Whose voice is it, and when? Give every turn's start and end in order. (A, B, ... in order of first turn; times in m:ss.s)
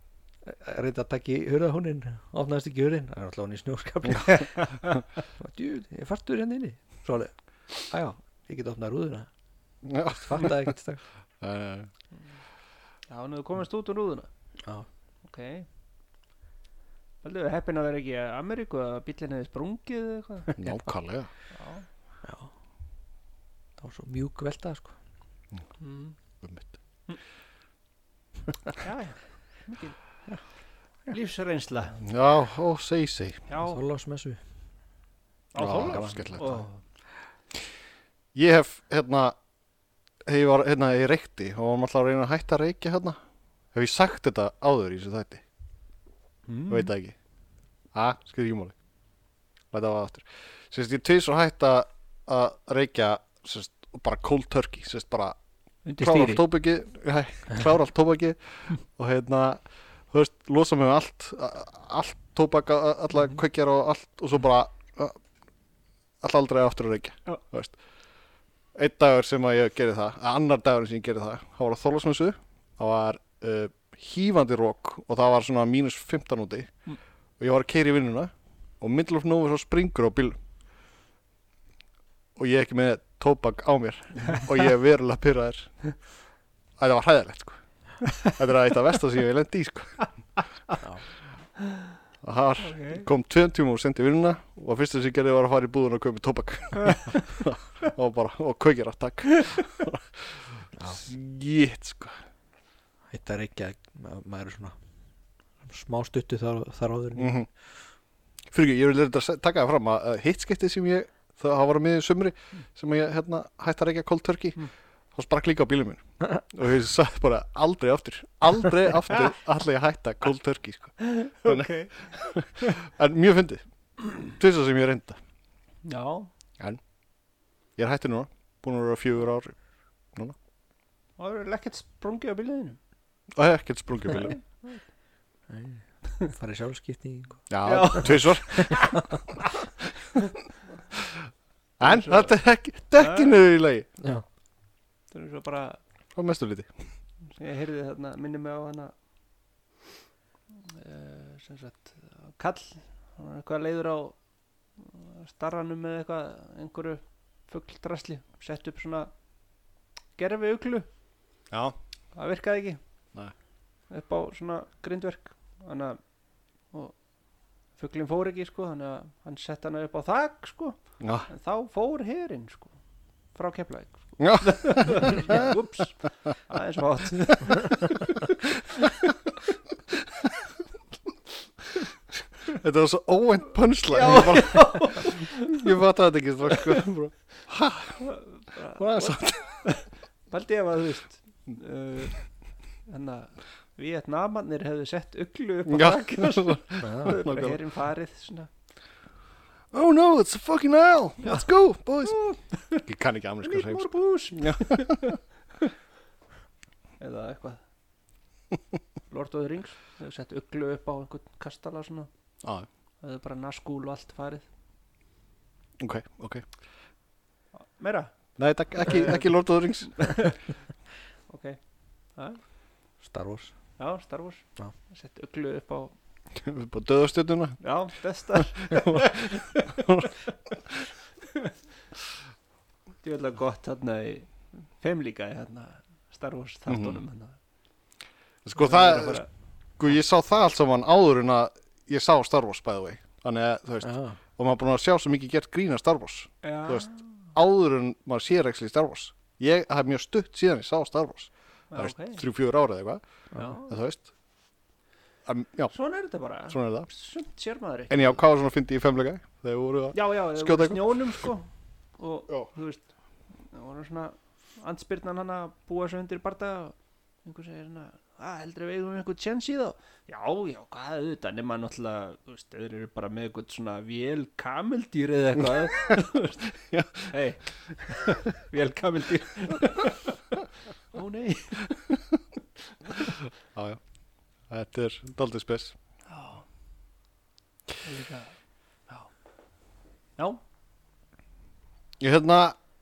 0:00.4-0:09.3 A
0:09.8-0:10.7 B
0:10.2-0:11.0 A
0:11.4-0:11.9 B
0:13.1-0:14.3 C
0:15.2-0:15.7 C
0:17.2-0:20.5 C
0:20.6-0:21.3 B
0:21.5-0:21.8 C
0:22.2-0:22.5 A
0:23.8-0:25.0 A
0:25.8-0:26.2 C
0:26.4-0:26.7 B
0:28.8-0:30.0 C
0:31.1-0:32.0 C
0:32.0-0:33.4 B
0:33.5-0:33.8 C
0:33.6-0:34.4 A
0:35.5-0:36.8 C
0:35.6-0:36.6 B
0:38.3-0:39.4 B
0:40.3-0:43.2 B
0:43.7-0:45.4 B
0:46.5-0:46.9 C
0:46.7-0:47.2 B
0:47.9-0:48.8 B
0:49.7-0:55.4 B
0:55.9-0:56.4 C
0:56.0-1:05.2 B
1:06.2-1:07.8 B
1:08.8-1:16.7 B
1:17.4-1:20.4 B
1:22.4-1:25.7 B
1:26.8-1:27.6 B
1:28.2-1:30.0 B
1:32.2-1:42.2 B
1:32.6-1:33.1 C
1:43.1-1:44.8 A
1:45.6-1:47.4 A
1:47.2-1:47.5 B
1:48.5-2:03.6 B
2:01.0-2:02.1 C
2:04.2-2:05.2 B
2:05.8-2:06.3 C
2:07.8-2:09.6 B
2:11.2-2:12.8 C
2:13.4-2:14.4 B
2:14.2-2:14.8 C
2:15.5-2:19.0 A
2:17.5-2:18.9 B
2:17.6-2:19.5 C
2:21.8-2:23.9 B
2:21.8-2:22.3 C
2:23.0-2:23.4 C
2:24.0-2:24.2 A
2:25.1-2:25.8 C
2:26.2-2:26.7 B
2:27.3-2:28.9 C
2:30.6-2:34.2 C
2:34.8-2:39.1 C
2:40.2-2:40.9 C
2:41.5-2:41.8 B
2:42.2-2:42.8 C
2:43.9-2:46.0 C
2:47.8-2:52.8 C
2:51.0-2:51.3 B
2:53.4-2:59.2 C
2:54.2-2:55.5 B
3:02.5-3:08.1 B
3:03.9-3:05.6 C
3:08.0-3:12.2 C
3:08.8-3:09.6 B
3:12.9-3:18.5 C
3:15.7-3:17.6 B
3:16.8-3:17.1 A
3:19.7-3:22.2 B
3:22.0-3:22.8 C
3:22.8-3:25.2 B
3:23.4-3:25.7 C
3:27.0-3:27.6 C
3:29.1-3:32.1 C
3:33.0-3:34.5 C
3:35.8-3:36.5 B
3:37.8-3:38.1 C
3:38.4-3:40.2 B
3:38.8-3:39.3 C
3:39.9-3:40.4 C
3:41.3-3:41.6 C
3:42.2-3:42.4 C
3:43.0-3:43.5 A
3:43.8-3:46.0 C
3:46.4-3:47.6 B
3:47.6-3:50.0 C
3:48.7-3:50.1 B
3:51.3-3:51.5 C
3:53.0-3:57.4 C
3:56.7-3:57.0 B
3:58.4-3:59.2 B
3:58.6-3:59.3 C
3:59.8-4:13.0 B
4:03.8-4:04.2 A
4:06.4-4:07.3 C
4:11.7-4:12.2 C
4:13.4-4:13.7 C
4:13.6-4:14.1 B
4:15.3-4:15.7 B
4:15.7-4:18.2 C
4:16.5-4:16.9 B
4:17.9-4:21.3 B
4:19.9-4:22.9 C
4:23.4-4:40.4 C
4:36.7-4:37.1 B
4:40.9-4:41.9 C
4:42.9-4:43.1 C
4:43.5-4:43.8 B
4:44.5-4:45.8 B
4:46.1-4:46.5 C
4:47.8-4:48.4 C
4:52.0-4:52.6 B